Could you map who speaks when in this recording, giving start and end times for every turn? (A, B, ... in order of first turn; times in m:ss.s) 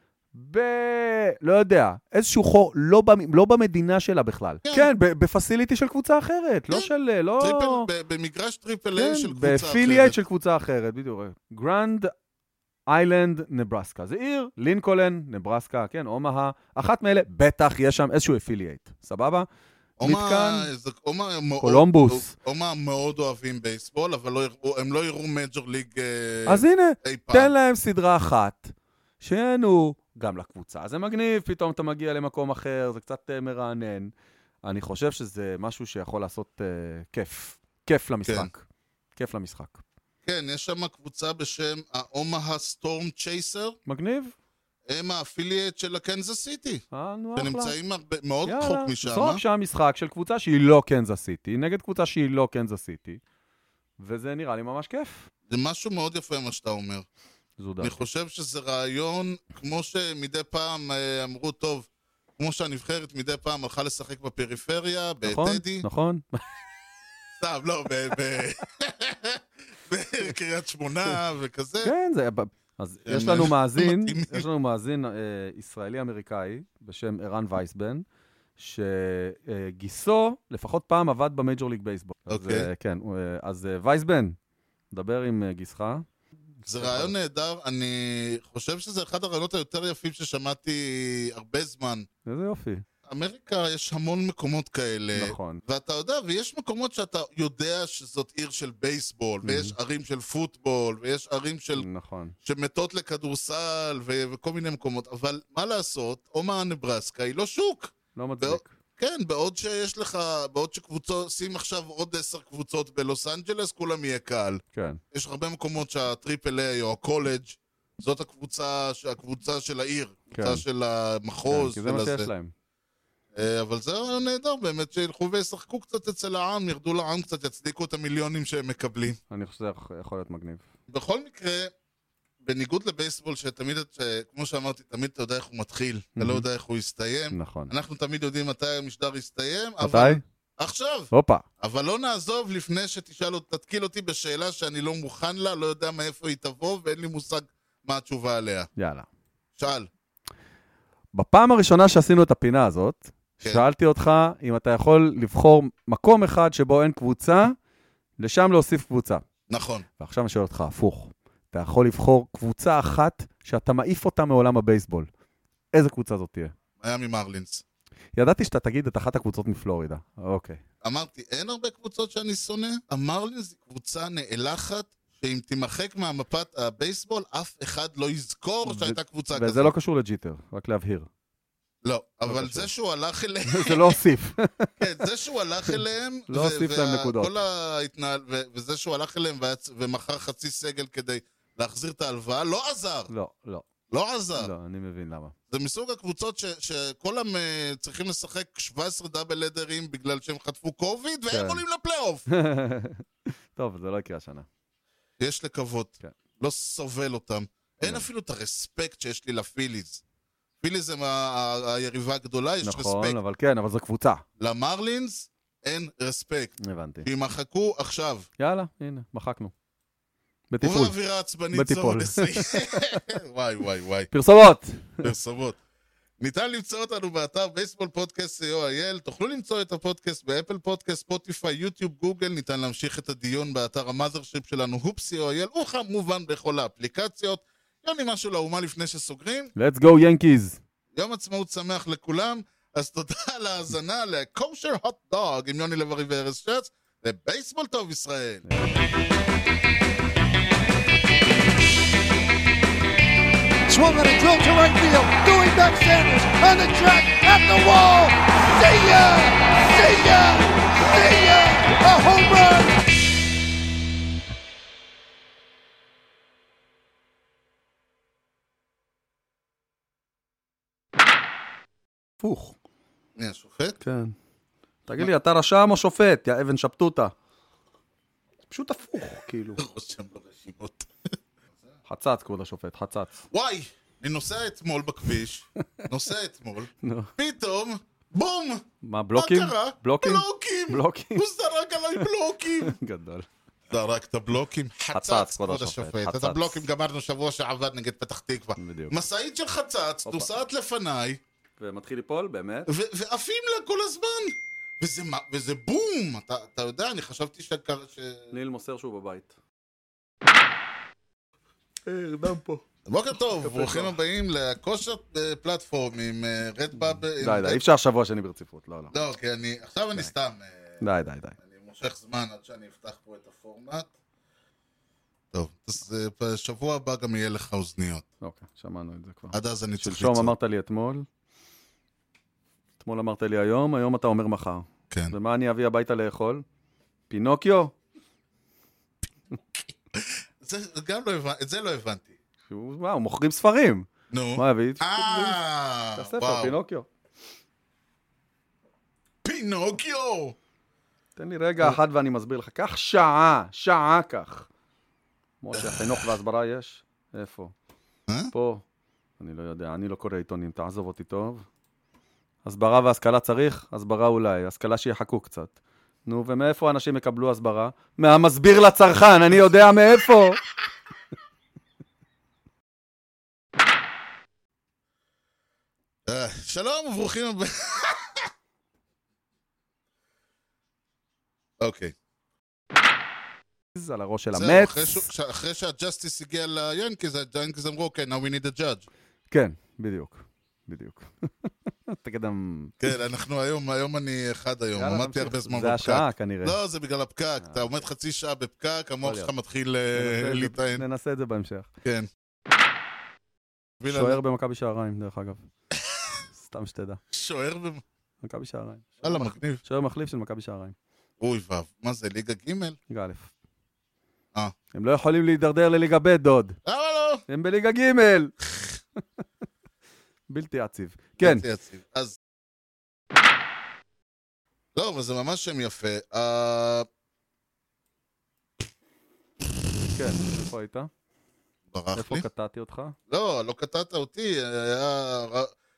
0:00.3-0:07.9 A
0:04.6-0:04.9 B
0:06.7-0:10.2 B
0:09.0-0:12.1 A
0:12.9-0:19.5 A
0:20.0-0:27.5 B
0:20.0-0:20.7 A
0:21.6-0:22.3 A
0:26.4-0:34.1 A
0:34.6-0:38.6 A
0:39.2-0:39.8 A
0:40.2-0:43.8 B
0:43.9-0:44.3 A
0:44.9-0:46.8 B
0:46.9-0:47.7 A
0:47.4-0:49.4 B
0:48.4-0:53.2 A
0:54.0-0:55.3 A
0:55.5-0:57.0 B
0:57.6-0:58.0 A
0:57.8-1:01.9 B
1:02.4-1:05.9 B
1:05.2-1:06.4 A
1:07.4-1:11.9 B
1:11.8-1:18.0 A
1:13.0-1:14.5 B
1:18.6-1:24.4 A
1:22.3-1:22.7 B
1:24.9-1:26.0 A
1:26.6-1:27.1 A
1:26.7-1:32.1 B
1:32.3-1:32.8 A
1:33.1-1:41.9 B
1:35.1-1:35.6 A
1:39.4-1:39.7 A
1:41.7-1:42.4 A
1:42.4-1:54.6 B
1:48.1-1:48.7 A
1:54.7-1:55.0 A
1:55.1-2:02.3 B
2:00.3-2:00.6 A
2:01.5-2:02.5 A
2:03.3-2:09.2 B
2:09.3-2:10.6 A
2:10.9-2:11.7 B
2:12.4-2:28.7 B
2:16.2-2:16.4 A
2:17.3-2:17.7 A
2:19.8-2:20.2 A
2:21.1-2:21.4 A
2:28.8-2:29.1 A
2:29.6-2:29.9 B
2:31.1-2:37.6 A
2:38.2-2:39.3 A
2:39.5-2:39.9 B
2:40.0-2:45.1 A
2:45.7-2:46.5 A
2:46.8-2:47.6 B
2:48.2-2:50.6 A
2:50.8-2:59.7 B
2:58.6-3:01.1 A
3:01.8-3:04.0 B
3:02.3-3:02.7 A
3:03.4-3:04.8 A
3:04.8-3:13.1 B
3:05.7-3:07.4 A
3:13.1-3:13.7 A
3:13.9-3:14.5 B
3:14.4-3:15.3 A
3:15.5-3:22.2 B
3:21.3-3:21.6 A
3:22.3-3:24.5 A
3:25.2-3:30.0 B
3:30.6-3:33.2 B
3:32.6-3:34.2 A
3:34.4-3:38.3 B
3:36.6-3:37.1 A
3:38.4-3:39.5 A
3:40.5-3:41.0 A
3:40.6-3:44.1 B
3:41.5-3:43.0 A
3:44.1-3:45.1 A
3:45.0-3:45.6 B
3:46.2-3:59.5 B
3:59.6-4:00.6 A
4:00.9-4:08.4 B
4:08.5-4:08.7 A
4:13.7-4:22.8 C
4:32.2-4:32.6 A
4:33.2-4:33.8 B
4:33.8-4:34.1 A
4:34.9-4:37.1 A
4:38.5-4:39.6 A
4:39.6-4:40.9 B
4:41.9-4:43.2 A
4:43.3-4:52.8 B
4:46.8-4:47.1 A
4:48.8-4:51.3 A
4:52.0-4:53.3 A
4:53.7-5:01.2 B
4:54.9-4:56.7 A
4:58.6-4:59.0 A
5:01.6-5:02.7 A
5:02.7-5:08.3 B
5:08.3-5:09.4 A
5:11.9-5:12.6 A
5:12.9-5:17.6 B
5:13.3-5:14.0 A
5:17.2-5:18.9 A
5:18.9-5:20.8 B
5:20.8-5:21.4 A
5:21.4-5:23.9 B
5:25.3-5:28.0 B
5:28.2-5:31.0 A
5:29.3-5:30.3 B
5:32.8-5:36.4 A
5:37.1-5:37.7 A
5:39.9-5:42.1 B
5:42.5-5:45.4 A
5:44.1-5:46.6 B
5:46.0-5:46.9 A
5:49.2-5:50.4 B
5:51.2-5:54.5 A
5:55.4-5:57.5 A
5:55.5-5:56.1 B
5:58.1-5:58.3 B
5:58.3-5:58.6 A
5:59.2-6:01.4 A
6:02.4-6:05.5 A
6:06.0-6:10.4 A
6:16.0-6:18.3 B
6:21.6-6:21.9 B
6:23.7-6:25.1 A
6:24.4-6:28.9 B
6:29.3-6:32.8 A
6:32.8-6:40.8 B
6:34.8-6:36.6 A
6:37.4-6:37.8 A
6:39.0-6:39.3 A
6:39.9-6:41.7 A
6:41.8-6:42.1 B
6:43.8-6:44.2 B
6:43.9-6:45.4 A
6:45.7-6:46.2 B
6:46.3-6:47.0 A
6:47.1-6:47.8 B
6:48.2-6:50.7 A
6:49.0-6:49.6 B
6:51.2-6:52.8 B
6:52.9-6:53.3 A
6:54.7-6:56.6 A
6:56.7-6:57.2 B
6:57.3-6:58.3 A
7:00.3-7:01.4 A
7:01.2-7:02.2 B
7:04.7-7:06.9 B
7:09.9-7:10.9 A
7:11.7-7:12.3 B
7:11.9-7:13.0 A
7:13.1-7:15.5 B